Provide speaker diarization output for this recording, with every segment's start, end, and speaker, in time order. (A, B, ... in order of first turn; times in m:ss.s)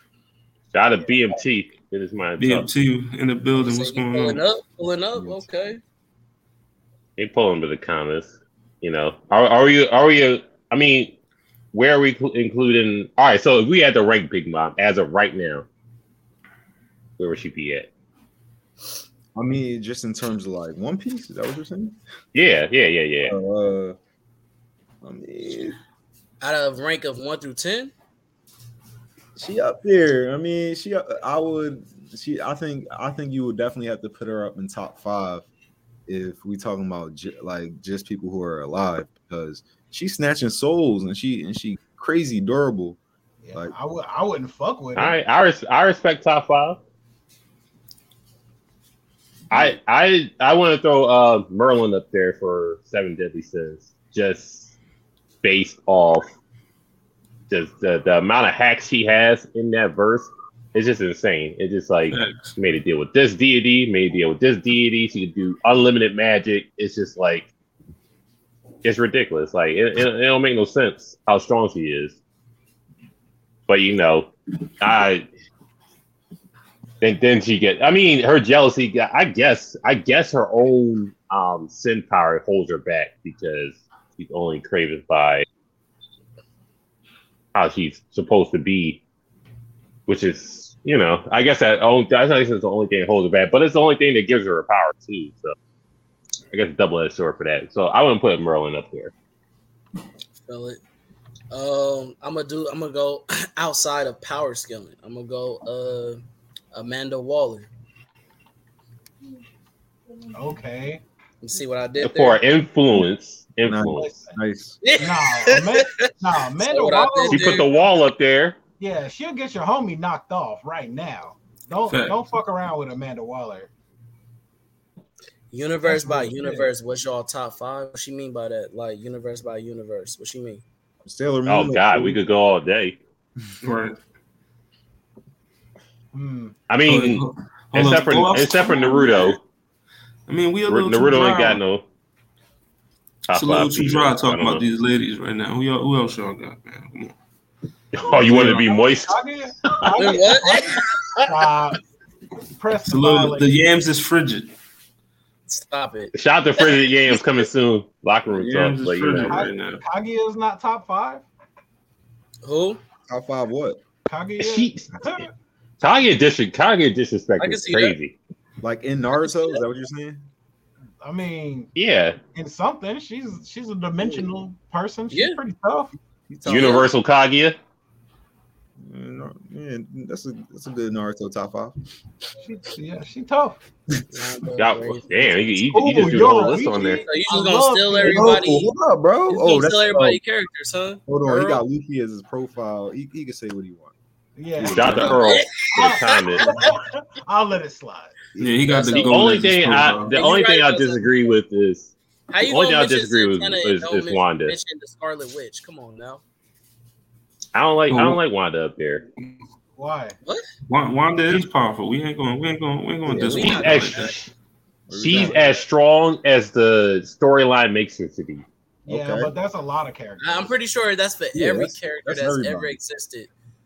0:00.7-0:02.7 A
0:02.4-0:04.4 B
0:03.6-0:05.8 C
0:05.2-0:05.4 D
0:07.2-0:11.2 A
0:11.7-0:15.7 A
0:17.2-0:17.9 A
0:19.4-0:22.0 D
0:22.3-0:23.3 A
0:23.3-0:24.0 D
0:25.0-0:25.8 D
0:26.4-0:27.9 C
0:29.4-0:35.5 D
0:36.1-0:43.0 D
0:43.4-0:45.2 E
0:45.0-0:46.8 A
0:49.5-0:54.7 A
0:55.4-0:56.3 A
0:57.5-1:07.5 A
1:02.1-1:02.5 B
1:08.8-1:12.2 A
1:13.7-1:15.3 A
1:17.0-1:25.5 A
1:27.6-1:29.0 A
1:30.1-1:35.6 A
1:36.5-1:39.1 A
1:40.5-1:40.8 C
1:41.5-1:46.2 C
1:46.7-1:47.7 C
1:50.3-1:51.0 E
1:51.4-1:52.4 C
1:52.0-1:54.1 A
1:53.6-1:54.8 D
1:53.9-1:54.4 E
1:54.8-1:57.7 C
1:55.0-1:57.7 E
1:57.3-1:58.6 A
1:58.8-2:03.7 E
2:01.9-2:02.2 B
2:05.5-2:10.6 C
2:05.8-2:06.7 E
2:11.0-2:12.2 D
2:11.5-2:13.0 A
2:13.6-2:14.0 B
2:16.1-2:16.6 E
2:16.7-2:19.4 A
2:16.9-2:19.4 B
2:20.3-2:21.6 B
2:20.7-2:21.8 A
2:23.3-2:24.7 A
2:23.3-2:27.2 B
2:27.9-2:29.9 A
2:28.1-2:28.6 B
2:28.2-2:31.8 E
2:30.0-2:31.5 C
2:32.5-2:33.7 E
2:32.8-2:34.5 B
2:35.5-2:37.5 C
2:36.1-2:39.4 A
2:38.3-2:39.8 B
2:39.3-2:41.2 E
2:42.4-2:42.8 C
2:43.1-2:43.8 D
2:44.1-2:45.3 E
2:44.4-2:45.2 A
2:45.8-2:48.2 A
2:47.4-2:48.0 C
2:48.6-2:50.3 D
2:49.1-2:49.6 C
2:51.0-2:51.7 E
2:51.8-2:52.2 A
2:52.3-2:55.9 E
2:55.1-2:55.4 C
2:56.3-2:56.9 D
2:56.4-2:57.6 A
2:58.8-3:01.8 D
3:02.4-3:03.6 E
3:04.1-3:08.7 C
3:04.6-3:07.0 A
3:05.7-3:08.4 E
3:08.0-3:10.2 D
3:09.3-3:11.6 C
3:11.1-3:14.0 D
3:14.4-3:18.2 E
3:14.6-3:15.2 D
3:14.7-3:16.5 A
3:15.2-3:16.7 C
3:18.4-3:20.2 B
3:18.7-3:19.2 C
3:19.1-3:24.6 A
3:20.1-3:21.1 C
3:22.3-3:26.2 C
3:27.5-3:29.0 A
3:27.9-3:28.2 B
3:29.8-3:30.2 E
3:30.7-3:34.1 B
3:33.1-3:33.6 D
3:33.2-3:34.1 C
3:33.3-3:34.3 A
3:34.9-3:35.6 D
3:34.9-3:38.4 A
3:38.9-3:40.5 E
3:38.9-3:39.3 D
3:40.2-3:43.3 C
3:41.3-3:42.8 D